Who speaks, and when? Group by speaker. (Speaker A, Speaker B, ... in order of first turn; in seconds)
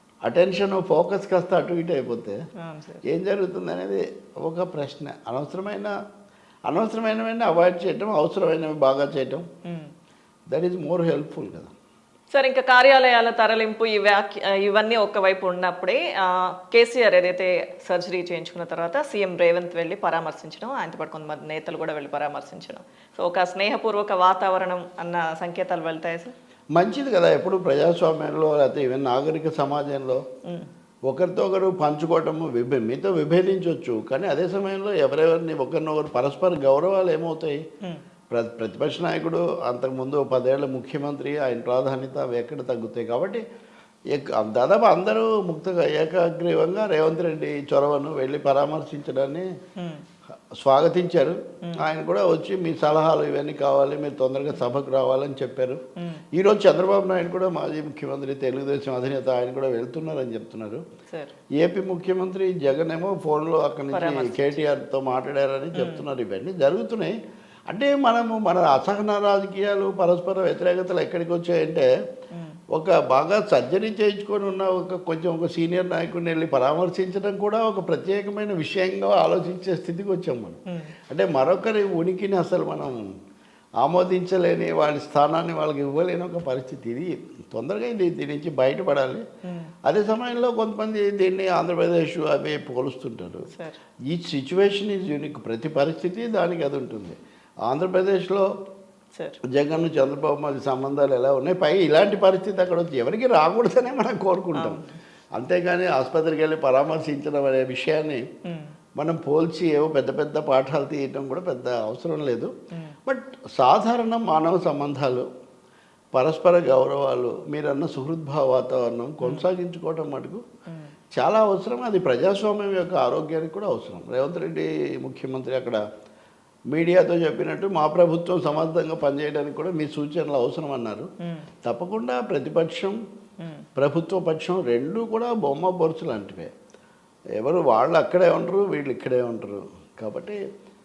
Speaker A: 0.2-2.4, 3.0-5.9, 6.7-9.5, 10.5-11.7, 26.8-30.2, 31.1-37.6, 38.3-43.4, 44.1-49.5, 50.6-55.8, 56.4-60.8, 61.6-67.2, 67.7-71.9, 72.7-80.6, 81.1-83.0, 83.8-89.2, 89.8-93.5, 94.1-98.5, 99.5-104.8, 105.4-108.2, 109.0-112.5, 113.1-115.3, 116.1-120.4, 121.2-125.8, 126.7-131.1, 131.7-133.0, 133.8-136.5, 137.4-140.4
Speaker B: 2.6-3.0, 9.7-9.9, 12.3-26.3, 49.8-50.0, 63.9-64.6, 65.8-66.0, 72.3-72.6, 89.5-89.7, 93.5-93.8, 104.5-104.9, 108.5-108.7, 120.7-120.9, 131.2-131.5, 133.4-133.7